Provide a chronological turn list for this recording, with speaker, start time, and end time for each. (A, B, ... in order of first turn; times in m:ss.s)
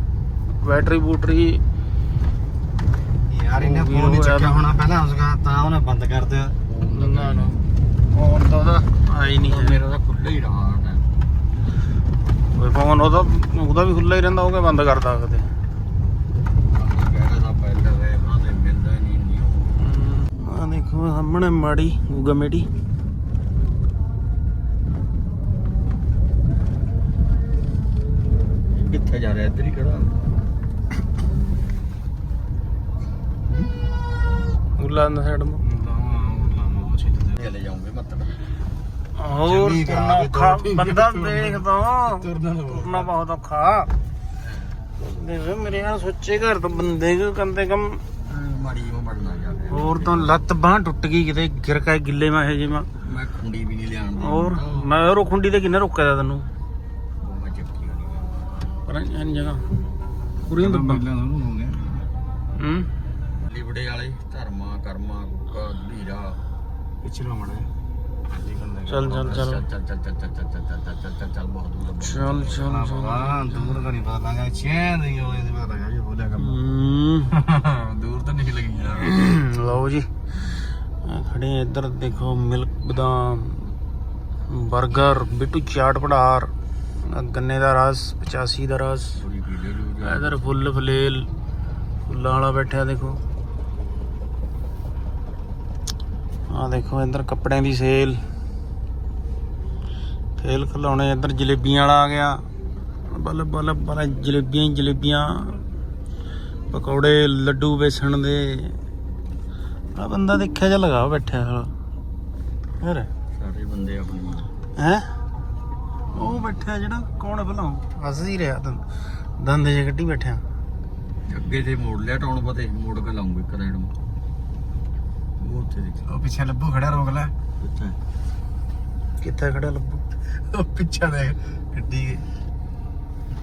0:00.6-0:01.6 A
0:03.3-0:06.6 B
0:03.6-0:04.6 A
0:06.7-0:07.6 C
0:06.9-0:07.5 A
0:08.1-0:09.8 A
0:09.1-0:11.0 C
0:12.6-0:15.5 A
0:16.7-0:19.7 C
0:19.8-0:22.7 A
0:28.7-0:30.1 C
0:34.8-0:35.6 A
0:35.6-0:37.5 B
0:37.4-0:38.4 C
0:39.2-0:43.9 A
0:39.5-0:43.1 B
0:44.4-0:44.8 C
0:45.0-0:48.0 A
0:48.3-0:50.4 C
0:49.7-0:52.9 A
0:53.0-0:54.9 C
0:54.2-0:56.4 A
0:57.2-0:58.8 C
0:58.9-0:59.6 A
1:00.5-1:01.0 A
1:00.5-1:02.1 B
1:02.6-1:02.9 A
1:03.4-1:06.4 C
1:07.0-1:07.7 B
1:08.3-1:09.4 B
1:08.9-1:09.6 A
1:09.1-1:12.7 C
1:12.0-1:13.9 A
1:12.5-1:16.6 B
1:16.4-1:17.3 A
1:17.3-1:19.2 B
1:19.0-1:20.1 A
1:21.1-1:23.7 A
1:24.5-1:26.5 A
1:27.0-1:29.2 A
1:29.2-1:30.6 C
1:30.0-1:31.3 A
1:32.1-1:33.2 A
1:36.5-1:38.2 A
1:40.4-1:42.4 A
1:43.1-1:45.6 A
1:46.7-1:48.8 A
1:50.0-1:51.7 A
1:52.8-1:53.1 A
1:53.3-1:54.5 C
1:54.8-1:55.1 A
1:56.1-1:58.8 A
1:59.4-2:00.4 A
2:01.3-2:03.9 C
2:05.4-2:06.0 C
2:06.1-2:07.3 B
2:07.6-2:08.0 C
2:09.2-2:10.0 A
2:10.3-2:12.2 B